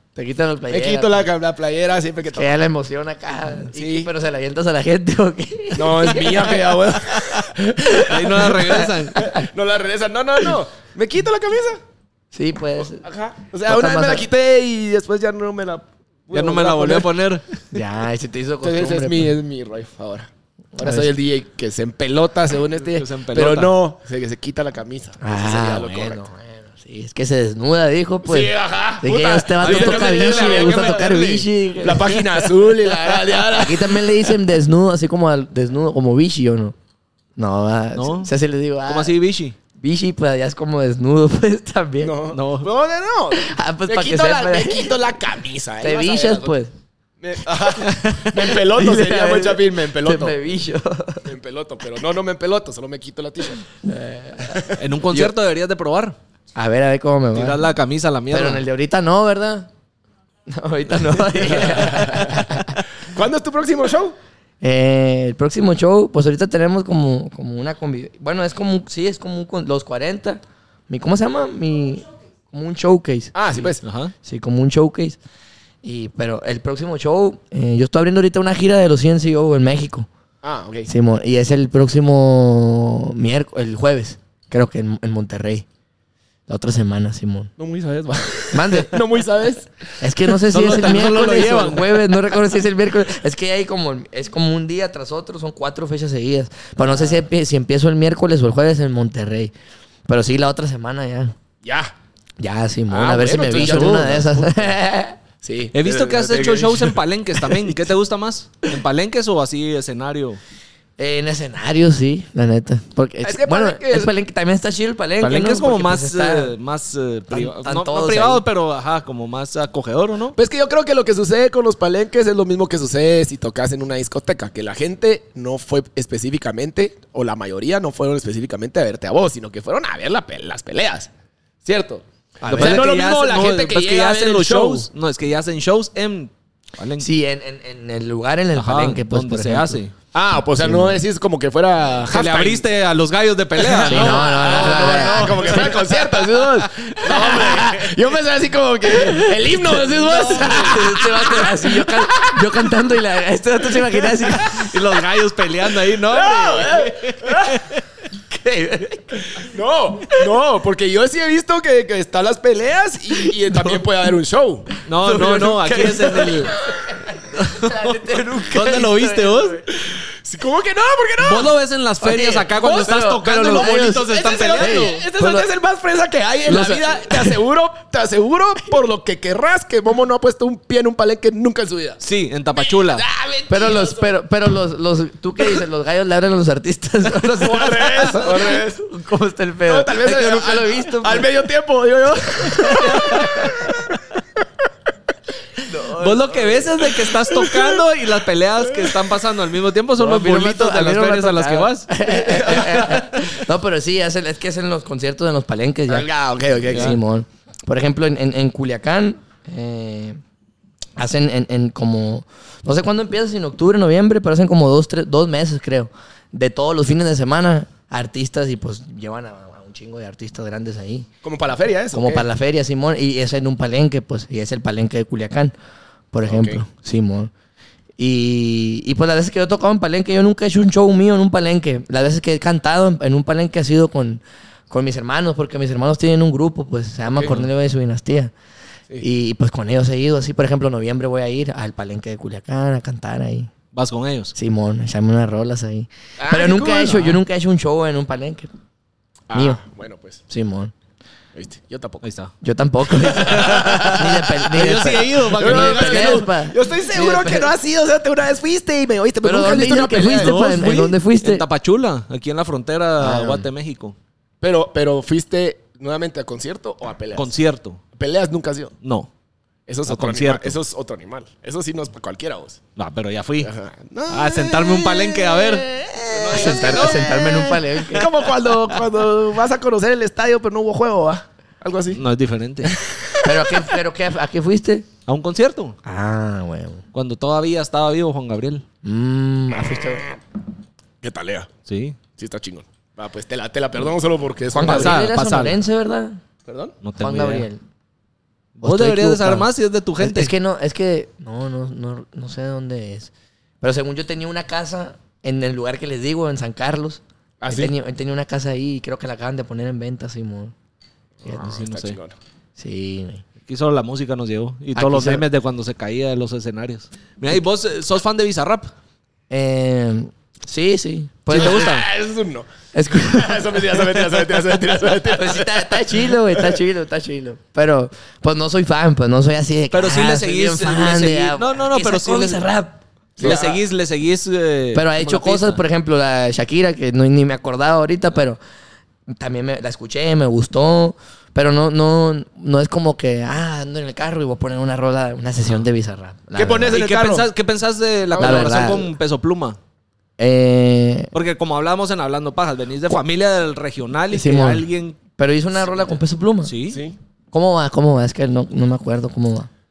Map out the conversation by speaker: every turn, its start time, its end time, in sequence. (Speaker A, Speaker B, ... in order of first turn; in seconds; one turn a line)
Speaker A: 0.1-1.2
Speaker B: 0.7-2.6
Speaker A: 2.3-6.7
Speaker B: 3.7-4.1
Speaker B: 5.7-11.8
Speaker C: 8.0-9.3
Speaker A: 8.8-9.4
Speaker A: 12.3-13.0
Speaker B: 12.8-17.1
Speaker A: 13.6-14.2
Speaker C: 16.3-17.5
Speaker A: 17.7-19.3
Speaker B: 18.6-26.2
Speaker A: 20.8-21.1
Speaker C: 22.9-23.7
Speaker A: 25.2-36.7
Speaker B: 28.2-34.4
Speaker C: 29.6-31.4
Speaker A: 37.4-39.1
Speaker C: 38.0-38.3
Speaker C: 38.9-39.5
Speaker A: 39.8-42.1
Speaker B: 42.0-46.5
Speaker C: 42.3-42.7
Speaker A: 43.3-44.9
Speaker A: 45.8-46.7
Speaker B: 47.2-50.4
Speaker C: 47.9-48.3
Speaker A: 48.6-51.3
Speaker B: 51.2-53.6
Speaker A: 53.8-55.3
Speaker B: 54.5-54.8
Speaker C: 54.8-56.2
Speaker A: 56.5-57.6
Speaker C: 57.3-58.6
Speaker A: 58.3-59.7
Speaker A: 60.5-62.8
Speaker B: 61.5-64.2
Speaker A: 64.6-73.3
Speaker B: 73.3-73.8
Speaker C: 73.8-74.1
Speaker A: 74.2-75.2
Speaker A: 75.8-80.1
Speaker B: 80.4-80.9
Speaker A: 80.9-85.7
Speaker A: 86.5-87.5
Speaker B: 87.6-89.7
Speaker A: 88.5-89.0
Speaker A: 90.0-99.5
Speaker C: 90.5-92.2
Speaker B: 96.8-97.2
Speaker A: 100.1-101.3
Speaker B: 101.6-101.9
Speaker A: 102.4-105.2
Speaker B: 102.9-104.7
Speaker C: 103.5-104.2
Speaker B: 105.4-107.9
Speaker C: 105.7-110.4
Speaker A: 111.0-116.5
Speaker B: 113.2-114.1
Speaker C: 115.2-120.4
Speaker A: 117.3-118.4
Speaker B: 120.3-131.1
Speaker B: 131.6-134.9
Speaker A: 132.4-132.8
Speaker C: 132.4-137.1
Speaker A: 137.0-139.8
Speaker C: 138.5-139.9
Speaker B: 140.1-142.7
Speaker A: 140.6-141.0
Speaker C: 142.1-147.9
Speaker B: 143.5-152.4
Speaker A: 143.9-145.7
Speaker A: 147.1-147.6
Speaker A: 149.0-149.5
Speaker C: 149.8-150.8
Speaker A: 150.1-154.7
Speaker B: 154.0-154.3
Speaker C: 154.5-157.8
Speaker B: 156.0-157.6
Speaker A: 158.3-159.3
Speaker B: 159.3-164.7
Speaker A: 163.2-163.8
Speaker C: 164.9-166.5
Speaker A: 165.0-169.7
Speaker C: 167.3-169.6
Speaker B: 170.1-171.6
Speaker C: 171.2-175.0
Speaker A: 172.0-173.9
Speaker B: 172.6-182.0
Speaker A: 174.6-175.5
Speaker A: 176.5-177.4
Speaker C: 182.0-183.0
Speaker B: 182.5-184.2
Speaker A: 183.5-191.3
Speaker B: 187.3-188.8
Speaker B: 189.6-193.7
Speaker A: 192.7-193.5
Speaker A: 195.7-196.7
Speaker C: 196.0-203.2
Speaker B: 197.3-197.8
Speaker B: 198.6-199.0
Speaker A: 200.0-206.1
Speaker B: 205.9-207.0
Speaker A: 206.7-210.2
Speaker C: 206.7-207.0
Speaker A: 211.0-221.1
Speaker B: 221.2-222.2
Speaker A: 221.9-225.5
Speaker A: 226.1-227.3
Speaker B: 226.2-226.6
Speaker A: 228.0-238.3
Speaker A: 239.0-243.5
Speaker C: 243.7-244.3
Speaker A: 244.3-248.5
Speaker B: 246.2-247.2
Speaker B: 249.3-250.2
Speaker A: 249.3-249.6
Speaker A: 250.3-250.7
Speaker B: 251.3-252.0
Speaker C: 252.0-252.3
Speaker A: 252.4-257.5
Speaker B: 253.1-254.2
Speaker C: 253.2-256.3
Speaker B: 255.3-260.5
Speaker A: 259.2-261.4
Speaker C: 259.9-263.9
Speaker A: 263.0-263.5
Speaker B: 264.4-267.3
Speaker C: 267.1-267.8
Speaker B: 267.9-268.7
Speaker C: 268.8-269.1
Speaker B: 269.7-272.6
Speaker C: 269.9-270.6
Speaker C: 272.8-273.5
Speaker B: 273.4-282.0
Speaker C: 274.1-277.2
Speaker A: 276.3-278.0
Speaker C: 281.9-282.8
Speaker B: 282.6-283.7
Speaker A: 283.2-284.9
Speaker C: 285.1-285.8
Speaker A: 285.8-286.8
Speaker C: 286.9-288.6
Speaker A: 288.8-290.1
Speaker B: 289.6-290.0
Speaker B: 291.0-291.5
Speaker C: 291.7-292.0
Speaker B: 292.2-295.0
Speaker A: 294.5-296.2
Speaker C: 294.6-295.6
Speaker B: 296.4-296.7
Speaker C: 296.8-297.5
Speaker A: 297.0-297.6
Speaker C: 298.6-300.3
Speaker A: 298.6-299.5
Speaker A: 300.0-303.1
Speaker A: 303.6-310.5
Speaker B: 307.4-307.7
Speaker B: 311.2-312.1
Speaker C: 311.3-312.0
Speaker A: 312.6-313.2
Speaker C: 313.4-318.7
Speaker A: 314.7-315.2
Speaker A: 319.3-321.7
Speaker C: 321.3-321.9
Speaker B: 321.3-326.6
Speaker A: 322.7-323.9
Speaker A: 325.0-333.4
Speaker C: 329.7-332.4
Speaker B: 333.2-333.6
Speaker C: 333.2-335.6
Speaker A: 334.7-338.4
Speaker A: 339.1-346.8
Speaker B: 346.4-347.3
Speaker C: 346.7-349.6
Speaker B: 348.1-348.8
Speaker A: 348.2-348.9
Speaker A: 350.2-351.1
Speaker C: 351.1-355.0
Speaker A: 354.1-354.6
Speaker A: 355.2-356.5
Speaker C: 356.4-356.8
Speaker B: 356.7-357.0
Speaker A: 357.3-359.5